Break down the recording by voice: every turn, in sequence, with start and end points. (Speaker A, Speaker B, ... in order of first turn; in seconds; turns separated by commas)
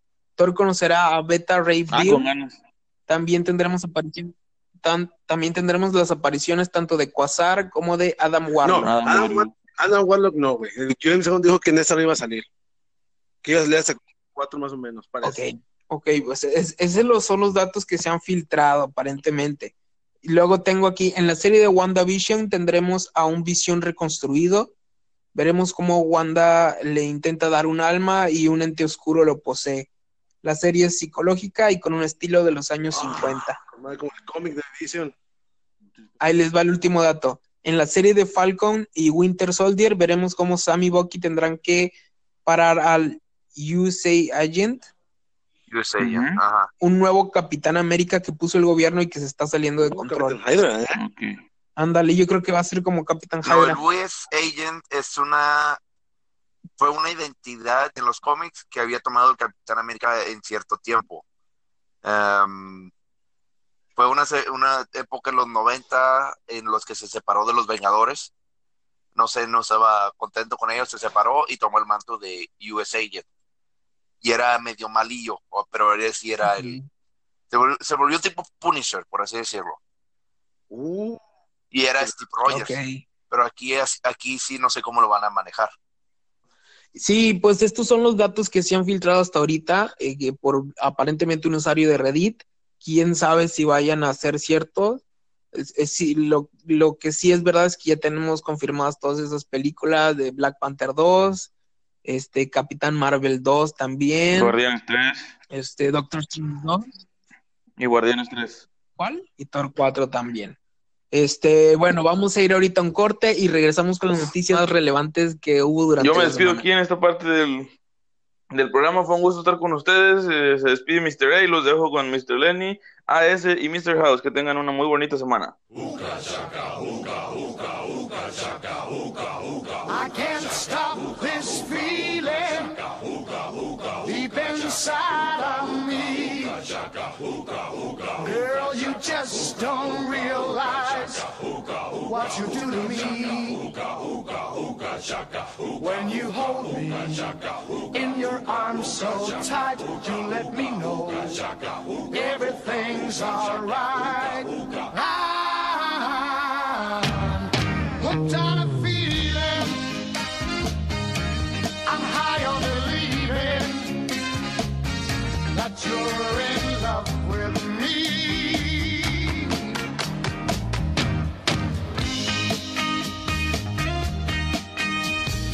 Speaker A: 0.4-2.3, Speaker B: 1.9-2.6, Speaker A: 3.1-8.9, Speaker C: 8.6-12.5, Speaker B: 8.8-9.5, Speaker C: 13.4-15.4, Speaker A: 15.2-19.7, Speaker A: 20.2-24.7, Speaker A: 25.3-29.9, Speaker A: 30.4-33.6, Speaker C: 32.9-35.1, Speaker A: 36.2-41.9, Speaker A: 42.4-44.9, Speaker D: 45.7-46.7, Speaker B: 46.0-46.4, Speaker A: 46.8-50.4, Speaker C: 49.8-51.0, Speaker B: 51.0-51.4, Speaker A: 51.8-53.8, Speaker D: 53.4-55.8, Speaker D: 56.8-61.2, Speaker D: 62.0-62.9, Speaker D: 64.0-68.3, Speaker D: 69.1-73.2, Speaker D: 74.2-76.8, Speaker A: 76.4-76.9, Speaker D: 77.5-79.8, Speaker C: 80.7-81.2, Speaker D: 81.7-82.7, Speaker A: 82.5-83.0, Speaker D: 83.3-85.7, Speaker A: 86.9-95.0, Speaker A: 95.5-101.5, Speaker A: 102.0-104.5, Speaker B: 104.3-105.3, Speaker A: 105.5-106.9, Speaker B: 107.8-108.7, Speaker A: 109.0-110.6, Speaker A: 111.1-116.6, Speaker B: 116.0-117.7, Speaker B: 118.5-125.6, Speaker E: 129.8-132.8, Speaker E: 134.0-136.6, Speaker E: 138.2-141.3, Speaker E: 142.0-143.7, Speaker E: 145.8-147.4, Speaker E: 147.9-151.4, Speaker E: 152.1-157.5, Speaker E: 158.0-159.8, Speaker E: 161.8-164.0, Speaker E: 165.5-169.5